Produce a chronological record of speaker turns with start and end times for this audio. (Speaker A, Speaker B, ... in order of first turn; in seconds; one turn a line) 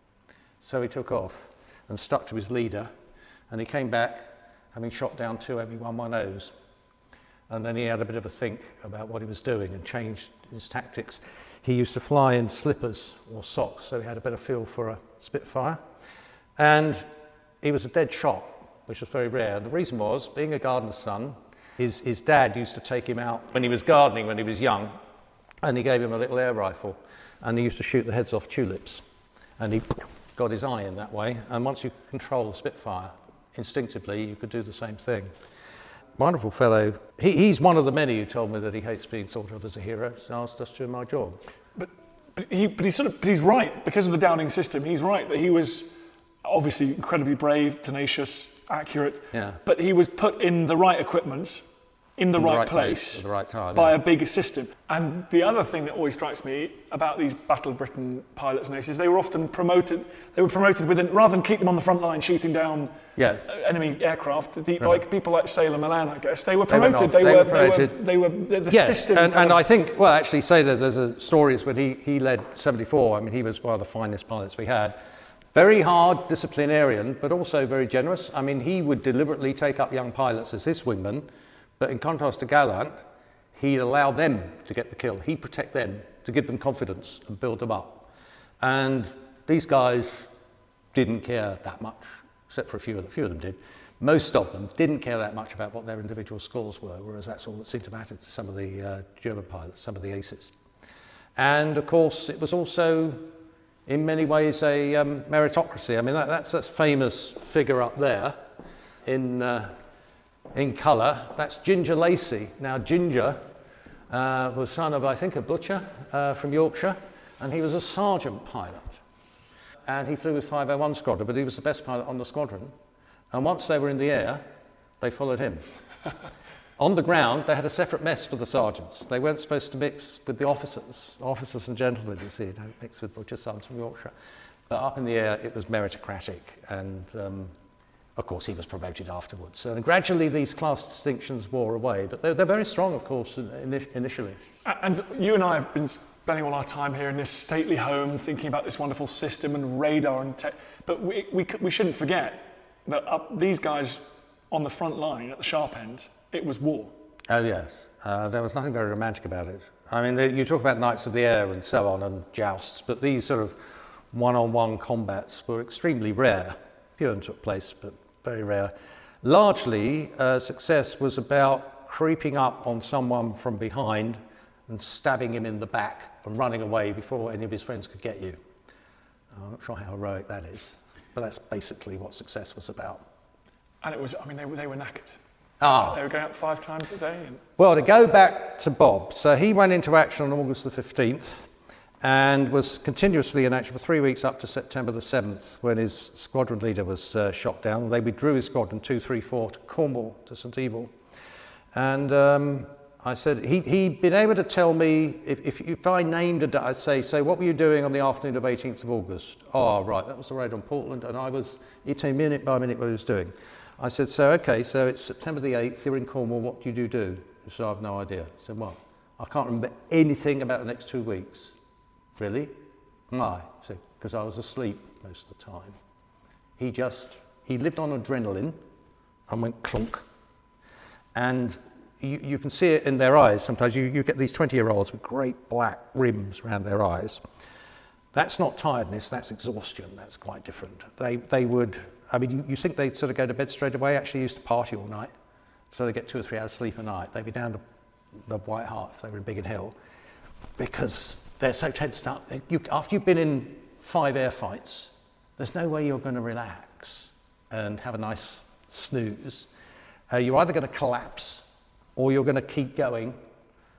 Speaker A: 0.6-2.9
Speaker A: 3.5-6.5
Speaker A: 7.5-15.8
Speaker A: 16.6-17.1
Speaker A: 17.6-25.0
Speaker A: 25.6-29.0
Speaker A: 29.6-35.3
Speaker A: 36.2-41.4
Speaker B: 41.8-51.7
Speaker A: 49.3-49.6
Speaker B: 52.2-62.9
Speaker A: 52.4-54.0
Speaker A: 63.2-63.5
Speaker B: 63.5-69.6
Speaker A: 66.7-68.0
Speaker A: 68.7-75.0
Speaker A: 75.5-81.3
Speaker A: 81.8-83.0
Speaker A: 83.5-88.1
Speaker A: 88.6-90.3
Speaker A: 90.9-100.5
Speaker A: 101.4-103.3
Speaker A: 103.9-108.4
Speaker A: 109.1-109.7
Speaker A: 110.5-113.4
Speaker A: 114.1-119.0
Speaker A: 119.9-122.7
Speaker A: 123.3-124.4
Speaker A: 125.0-125.6
Speaker A: 126.8-134.1
Speaker A: 134.7-137.5
Speaker A: 138.2-144.4
Speaker B: 144.7-156.9
Speaker A: 157.3-178.4
Speaker A: 179.3-183.0
Speaker B: 183.8-185.1
Speaker A: 185.6-186.0
Speaker B: 185.8-187.4
Speaker A: 187.6-191.5
Speaker A: 192.0-200.9
Speaker A: 201.7-221.6
Speaker A: 222.2-222.6
Speaker A: 223.1-225.8
Speaker A: 226.6-228.6
Speaker A: 229.3-230.1
Speaker A: 231.2-237.2
Speaker A: 238.1-245.1
Speaker A: 245.7-247.6
Speaker A: 248.3-249.8
Speaker A: 250.6-259.5
Speaker A: 260.1-261.4
Speaker A: 262.0-263.2